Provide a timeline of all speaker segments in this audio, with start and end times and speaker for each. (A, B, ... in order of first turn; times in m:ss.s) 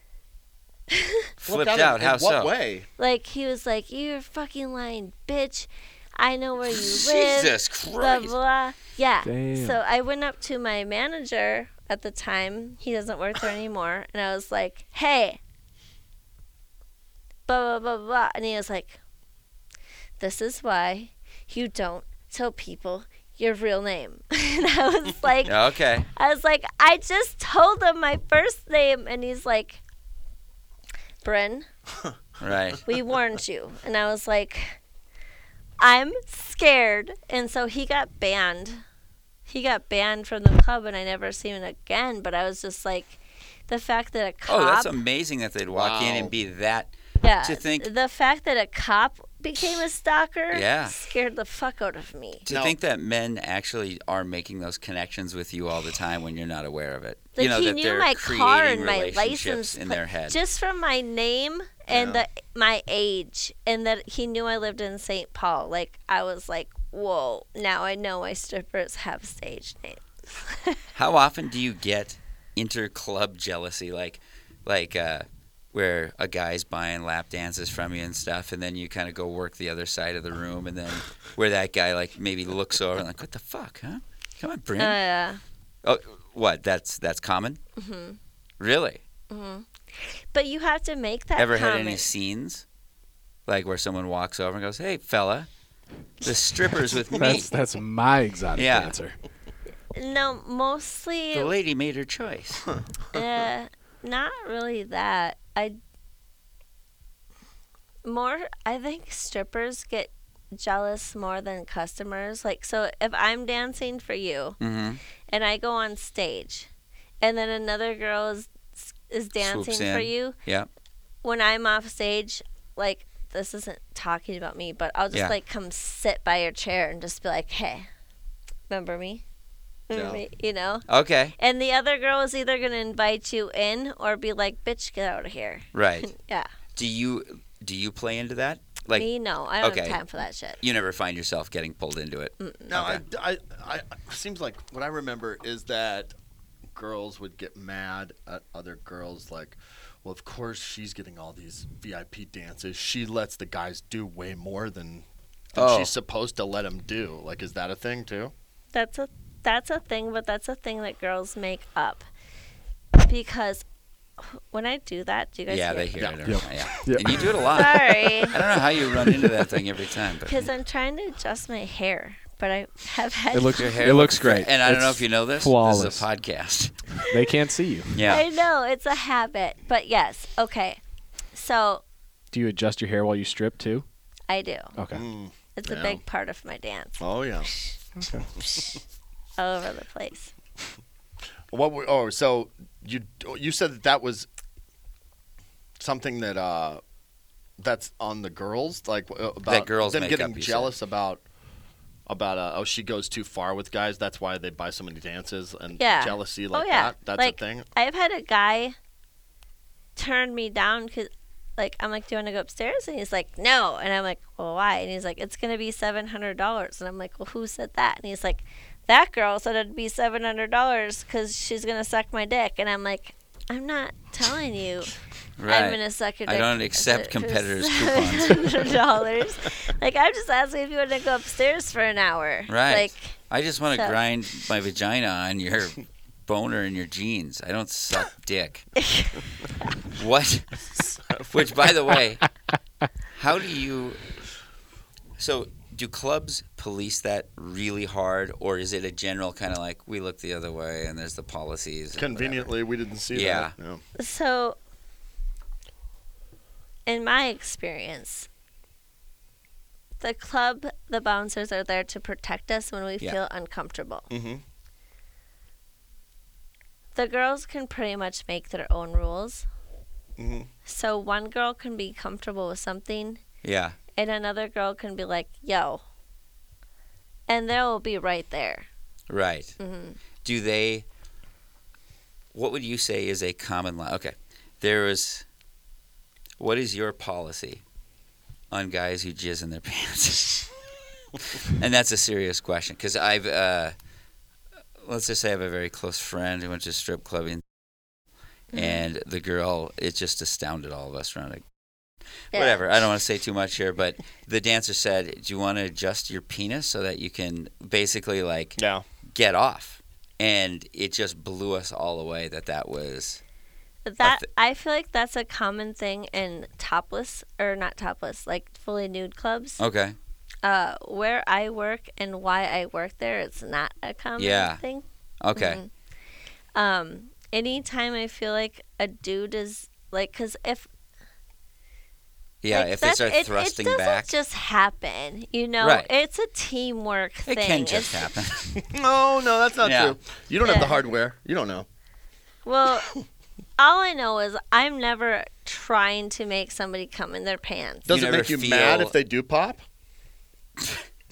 0:00.9-0:01.3 A
0:01.4-0:02.5 B
0:01.4-0:02.9 C
0:03.0-0:15.4 A
0:06.7-0:08.4 B
0:09.2-0:09.8 D
0:17.5-0:19.0 A
0:20.2-0:25.6 A
0:25.4-0:26.1 B
0:26.1-0:29.8 A
0:31.2-0:31.7 A
0:32.4-0:32.8 B
0:32.8-0:34.8 A
0:35.8-0:38.8 A
0:39.5-0:44.9 A
0:44.5-0:47.9 B
0:45.7-0:46.3 C
0:47.2-0:52.4 A
0:50.5-0:50.9 B
0:52.4-1:00.4 B
0:52.5-0:52.7 C
0:57.4-1:10.8 A
1:01.9-1:02.2 C
1:10.9-1:25.0 B
1:24.8-1:25.4 A
1:25.8-1:27.6 B
1:27.8-1:28.2 A
1:28.6-1:29.0 B
1:29.3-1:32.1 A
1:31.4-1:32.6 B
1:33.5-1:35.5 B
1:36.2-1:37.5 B
1:37.1-1:39.2 D
1:38.5-1:38.9 B
1:39.9-1:41.5 A
1:41.3-1:42.7 B
1:43.1-1:45.8 A
1:48.0-1:54.6 A
1:54.6-1:55.0 B
1:55.3-1:56.7 A
1:57.2-2:00.4 A
1:59.4-2:00.7 B
2:01.2-2:07.9 A
2:08.7-2:09.2 A
2:09.9-2:16.5 A
2:09.9-2:10.2 C
2:10.9-2:11.3 B
2:15.7-2:16.1 B
2:16.8-2:19.1 B
2:18.9-2:20.6 A
2:19.6-2:20.0 B
2:20.6-2:23.0 B
2:22.4-2:22.8 A
2:22.7-2:26.1 C
2:26.7-2:38.3 C
2:35.5-2:35.9 B
2:38.7-2:42.1 A
2:43.0-2:43.6 A
2:44.2-2:46.0 A
2:45.5-2:50.4 B
2:46.0-2:46.7 C
2:46.2-2:47.4 D
2:47.5-2:48.4 A
2:50.2-2:53.8 A
2:53.3-2:56.0 D
2:53.5-2:56.9 B
2:57.0-2:58.0 D
2:57.9-2:58.2 B
2:58.0-3:00.8 A
3:01.3-3:01.8 A
3:02.3-3:03.8 D
3:04.3-3:04.7 A
3:04.8-3:05.0 D
3:04.9-3:06.0 C
3:05.6-3:07.7 A
3:07.0-3:07.5 C
3:08.0-3:08.2 D
3:08.1-3:08.7 C
3:08.4-3:08.8 A
3:09.4-3:10.3 A
3:11.5-3:14.3 C
3:15.8-3:16.8 C
3:17.6-3:21.2 C
3:19.4-3:20.7 B
3:22.1-3:27.7 C
3:25.8-3:28.8 A
3:30.0-3:44.9 A
3:45.4-3:48.7 B
3:45.5-3:53.2 A
3:52.5-3:58.7 B
3:58.8-3:59.1 A
3:59.9-4:00.7 B
4:00.8-4:01.7 C
4:01.3-4:02.3 B
4:03.1-4:04.0 B
4:05.2-4:12.5 B
4:12.0-4:13.8 C
4:13.1-4:13.5 B
4:14.0-4:14.6 A
4:16.8-4:18.3 A
4:20.0-4:24.1 A
4:24.1-4:24.4 C
4:26.9-4:29.4 A
4:30.2-4:30.5 C
4:30.6-4:33.2 A
4:33.4-4:33.8 B
4:33.9-4:35.8 A
4:37.3-4:38.7 A
4:39.1-4:39.6 B
4:39.6-4:40.0 A
4:40.2-4:40.8 B
4:42.3-4:45.2 B
4:46.4-4:47.6 B
4:48.5-4:50.5 B
4:51.2-4:53.7 B
4:54.8-4:57.4 B
4:58.5-4:58.8 A
4:58.5-5:01.4 B
5:02.3-5:02.6 A
5:02.3-5:13.2 B
5:08.6-5:08.8 C
5:13.8-5:19.6 A
5:19.6-5:20.0 B
5:20.4-5:25.7 A
5:24.2-5:24.6 B
5:25.2-5:25.6 B
5:26.5-5:30.7 A
5:32.4-5:34.1 B
5:32.5-5:38.1 A
5:35.6-5:35.9 B
5:37.3-5:38.6 B
5:38.5-5:41.6 C
5:39.6-5:40.0 B
5:40.4-5:40.8 A
5:42.4-5:42.9 A
5:43.6-5:47.9 A
5:47.8-5:49.6 C
5:47.9-5:48.9 B